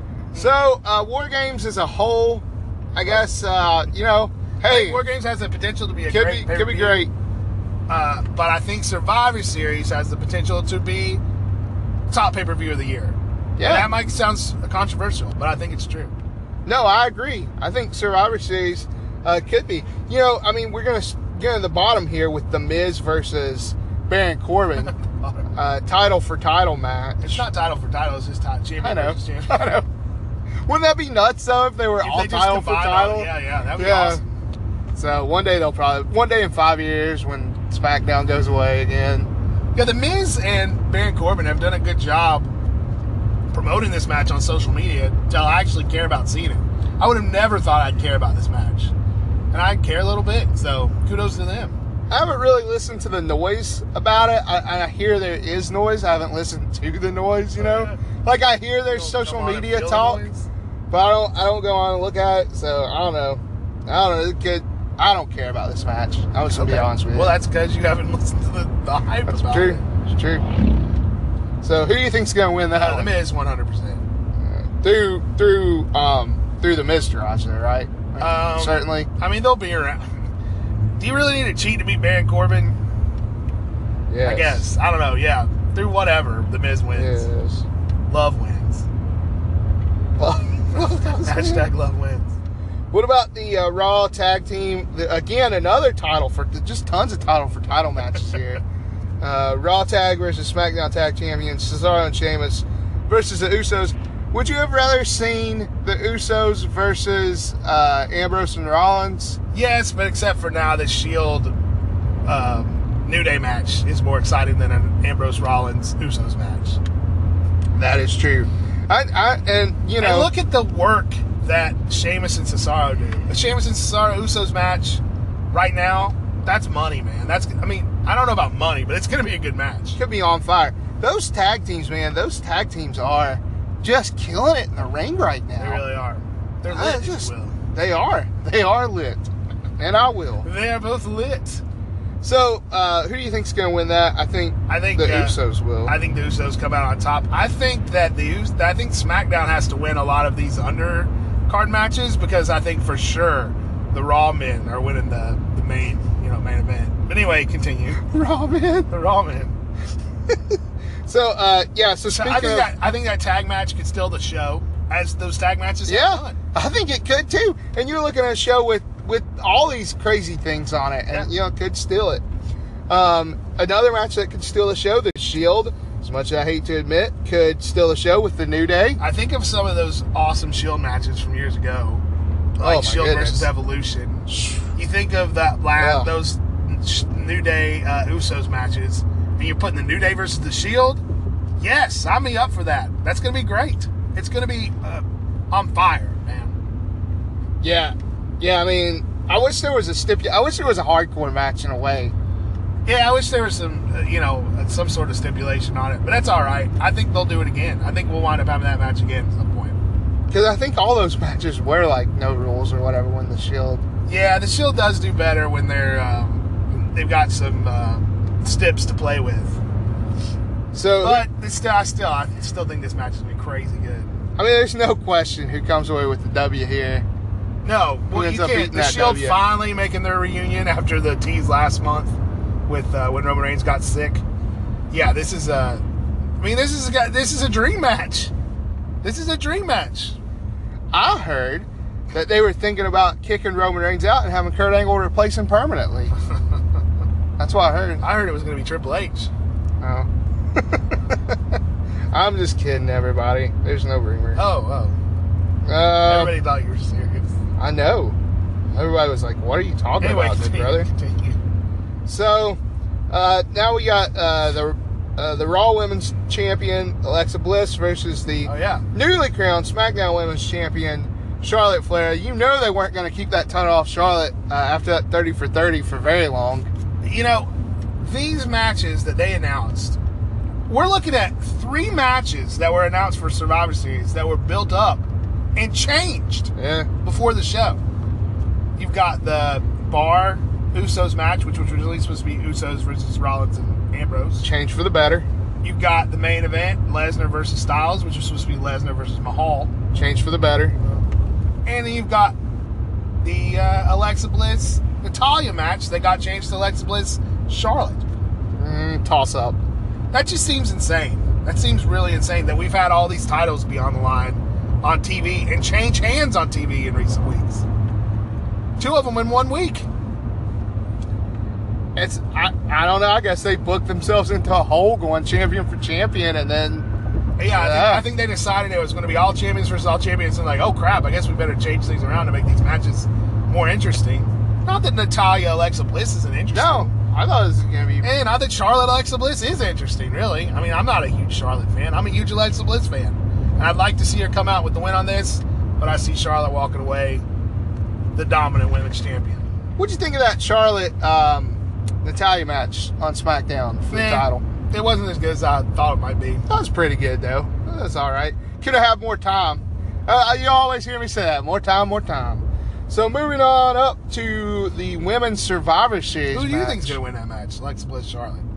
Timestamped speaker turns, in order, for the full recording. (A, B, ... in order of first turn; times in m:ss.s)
0:00.4-0:05.0 A
0:04.7-0:07.0 B
0:06.1-0:07.1 A
0:07.9-0:11.2 B
0:12.1-0:16.1 B
0:13.6-0:13.9 A
0:16.6-0:24.9 A
0:24.8-0:25.5 B
0:25.5-0:27.5 A
0:27.2-0:29.7 B
0:28.8-0:29.9 A
0:30.7-0:34.2 A
0:32.0-0:34.3 B
0:34.9-0:39.3 A
0:39.8-0:42.5 B
0:43.5-0:48.9 B
0:49.5-0:51.8 B
0:52.1-1:00.2 A
0:57.6-0:58.0 B
0:58.9-1:00.5 B
1:00.9-1:07.4 A
1:06.5-1:09.8 B
1:09.3-1:10.4 A
1:11.6-1:13.2 A
1:12.8-1:14.0 B
1:14.4-1:19.1 A
1:18.2-1:20.1 B
1:21.0-1:22.8 B
1:24.1-1:24.6 A
1:24.2-1:27.3 B
1:27.0-1:27.6 A
1:28.1-1:28.9 B
1:30.2-1:31.7 A
1:31.2-1:32.4 B
1:32.9-1:38.6 A
1:39.2-1:49.4 A
1:49.5-1:51.5 B
1:52.2-1:56.8 B
1:57.8-2:00.3 A
2:00.0-2:10.0 B
2:10.0-2:15.8 A
2:15.6-2:17.6 B
2:16.7-2:20.5 A
2:20.4-2:21.6 B
2:22.2-2:26.0 A
2:24.7-2:38.0 B
2:38.0-2:38.9 A
2:38.9-2:39.6 B
2:40.3-2:42.7 A
2:42.1-2:46.4 B
2:45.9-2:52.2 A
2:52.9-2:59.0 A
2:59.0-3:02.0 B
3:02.6-3:11.0 B
3:02.6-3:03.5 A
3:04.3-3:04.6 A
3:05.8-3:06.1 A
3:11.6-3:16.6 B
3:17.6-3:22.1 A
3:22.9-3:29.8 B
3:30.3-3:33.8 A
3:34.1-3:39.6 B
3:40.7-3:41.2 A
3:41.0-3:44.1 B
3:44.4-3:47.1 A
3:47.6-3:52.2 B
3:48.1-3:49.4 A
3:52.7-3:54.2 B
3:54.9-3:55.8 B
3:56.4-3:58.3 B
3:59.0-4:00.2 B
4:00.9-4:06.1 A
4:07.4-4:08.0 A
4:08.0-4:09.3 B
4:09.8-4:11.6 A
4:12.1-4:14.4 A
4:14.4-4:15.0 B
4:15.6-4:16.4 A
4:16.0-4:17.3 B
4:17.6-4:18.2 A
4:18.7-4:20.9 A
4:20.0-4:21.4 B
4:22.1-4:22.6 A
4:23.1-4:36.7 A
4:28.4-4:28.8 B
4:37.0-4:40.0 B
4:40.7-4:45.0 B
4:45.6-4:46.5 B
4:46.6-4:46.9 A
4:47.0-4:47.8 B
4:48.8-4:54.5 B
4:54.4-4:55.3 A
4:55.6-4:59.7 B
4:59.9-5:00.8 A
5:01.7-5:02.4 B
5:03.2-5:08.1 B
5:08.6-5:09.6 A
5:10.1-5:17.6 B
5:18.8-5:19.9 B
5:22.0-5:26.9 A
5:27.4-5:36.9 B
5:27.4-5:28.1 A
5:36.5-5:38.1 A
5:38.0-5:47.2 B
5:48.2-5:49.5 B
5:49.8-5:54.4 A
5:53.9-5:56.5 B
5:56.5-6:07.0 A
6:06.3-6:08.5 B